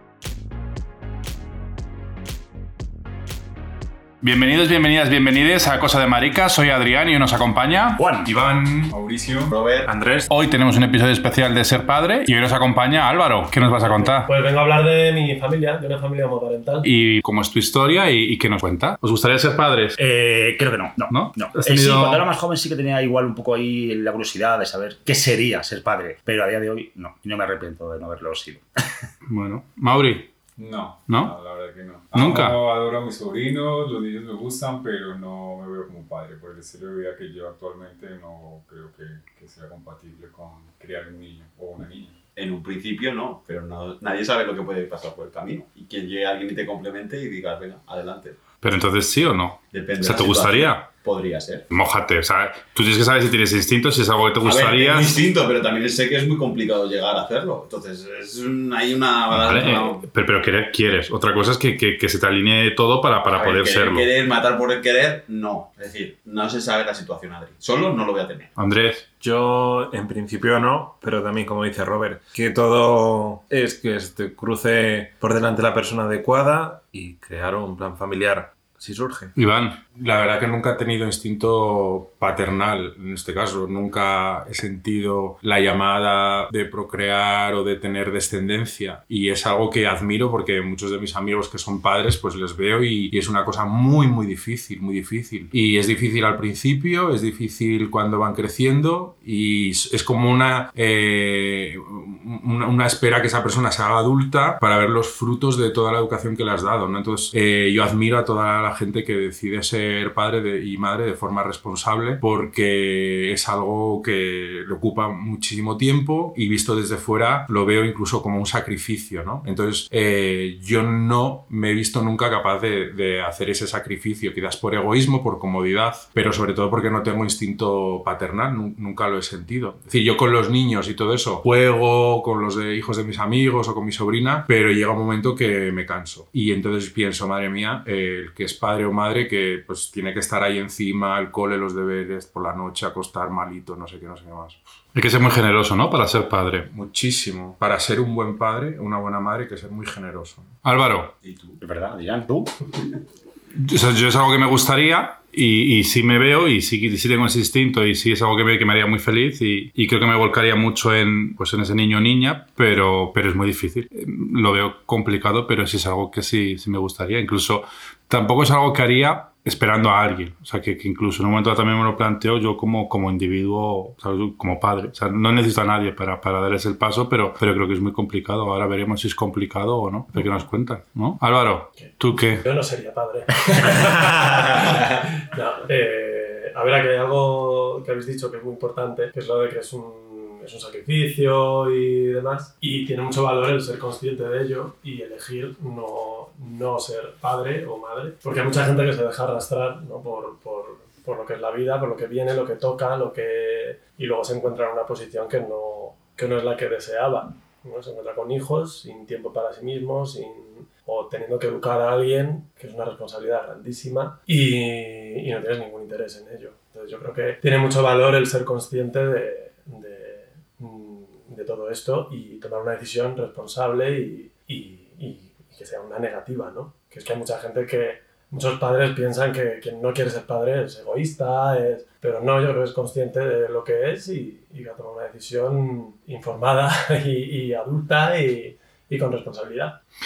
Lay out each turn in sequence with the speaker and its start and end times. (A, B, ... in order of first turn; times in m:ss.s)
0:04.2-0:08.9 A
0:08.0-0:08.3 B
0:08.9-0:09.5 C
0:09.5-0:09.9 D
0:10.2-0:14.3 A
0:13.9-0:16.9 E
0:16.8-0:20.0 A
0:20.0-0:28.6 B
0:21.1-0:22.2 A
0:29.2-0:30.3 A
0:30.6-0:42.2 C
0:31.1-0:31.3 A
0:32.1-0:32.6 A
0:42.4-0:48.4 D
0:48.6-0:50.9 A
0:49.7-0:51.7 D
0:51.7-0:55.2 A
0:54.4-1:00.0 D
0:59.3-1:04.0 A
1:03.3-1:08.5 D
1:08.6-1:09.1 A
1:09.2-1:19.3 F
1:19.4-1:19.8 A
1:19.9-2:24.6 G
2:24.9-2:26.7 A
2:26.7-2:30.6 G
2:30.6-2:31.1 A
2:31.2-2:31.6 D
2:31.6-2:32.5 B
2:33.6-3:02.4 A
3:01.8-3:59.8 E